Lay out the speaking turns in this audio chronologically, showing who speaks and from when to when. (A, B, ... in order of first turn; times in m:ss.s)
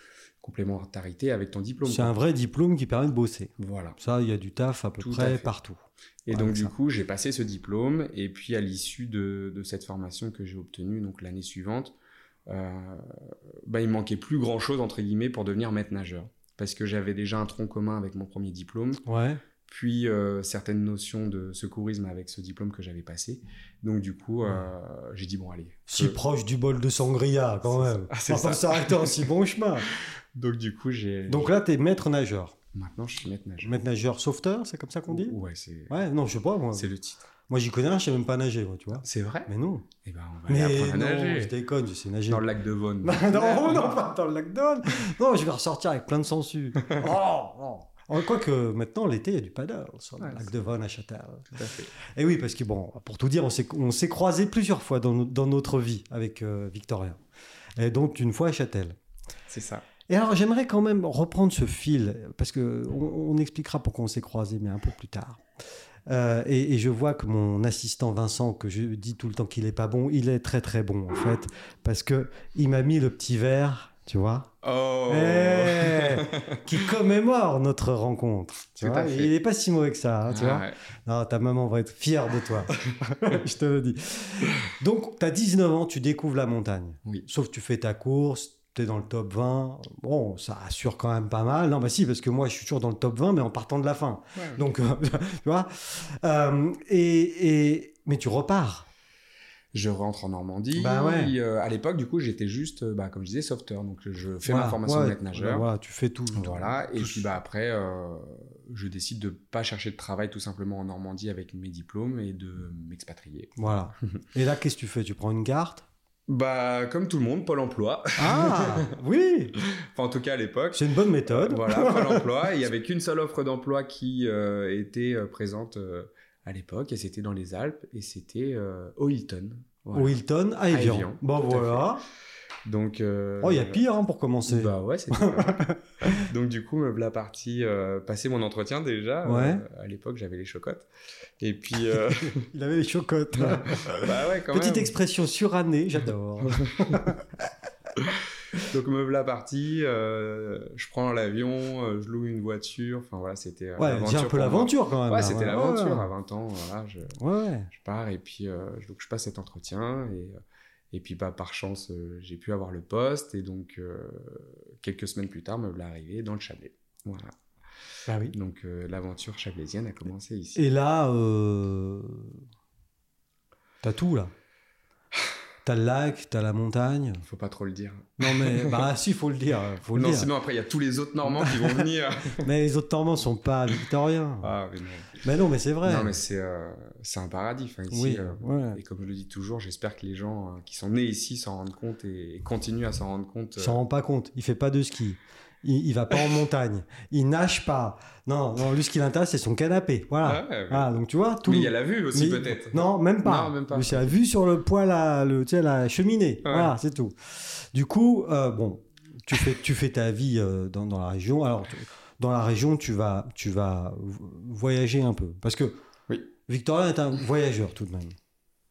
0:00.4-0:02.2 A
0:01.8-0:06.7 B
0:03.6-0:04.0 A
0:05.0-0:05.5 A
0:06.3-0:12.0 A
0:12.5-0:19.0 A
0:19.1-0:19.4 B
0:19.7-0:26.2 A
0:25.9-0:29.9 B
0:27.6-0:29.3 A
0:29.8-0:31.6 A
0:31.3-0:32.6 B
0:32.7-0:33.7 A
0:33.6-0:35.4 B
0:35.1-0:36.0 A
0:35.9-0:36.9 B
0:36.8-0:37.2 A
0:37.5-0:39.9 B
0:39.0-0:39.5 A
0:40.0-0:41.5 A
0:40.5-0:42.5 B
0:42.3-0:44.0 A
0:43.0-0:51.5 B
0:50.2-0:50.5 A
0:51.5-0:51.9 A
0:52.0-0:57.2 B
0:57.8-0:59.0 B
0:59.5-0:59.9 A
1:00.1-1:05.4 B
1:06.1-1:14.5 B
1:14.6-1:16.9 A
1:15.1-1:38.9 B
1:18.8-1:19.3 A
1:20.3-1:20.8 A
1:34.4-1:34.6 A
1:39.7-1:45.7 A
1:40.8-1:41.4 B
1:44.5-1:47.3 B
1:46.4-1:53.6 A
1:53.6-1:55.9 B
1:56.3-1:58.9 A
1:58.2-1:59.6 B
1:59.6-2:10.2 A
2:00.7-2:02.3 B
2:09.9-2:12.0 B
2:10.7-2:12.0 A
2:12.6-2:13.8 A
2:13.4-2:16.3 B
2:14.5-2:20.9 A
2:19.2-2:19.6 B
2:21.4-2:22.5 A
2:22.2-2:27.4 B
2:23.4-2:25.0 A
2:26.4-2:27.0 A
2:28.0-2:37.2 A
2:33.8-2:36.1 B
2:37.2-2:37.7 B
2:37.7-2:40.4 A
2:40.9-2:47.3 A
2:48.1-2:48.3 B
2:48.3-2:50.6 A
2:50.6-2:52.4 B
2:53.8-2:54.3 B
2:55.6-2:57.2 B
2:57.2-2:58.9 A
2:58.2-3:00.3 B
2:59.9-3:02.5 A
3:01.4-3:01.8 B
3:02.4-3:04.5 B
3:04.4-3:05.2 A
3:05.2-3:06.2 B
3:05.8-3:13.8 A
3:07.9-3:08.8 B
3:13.6-3:35.8 B
3:20.2-3:20.9 A
3:21.4-3:24.2 A
3:26.4-3:26.7 A
3:36.5-3:38.2 B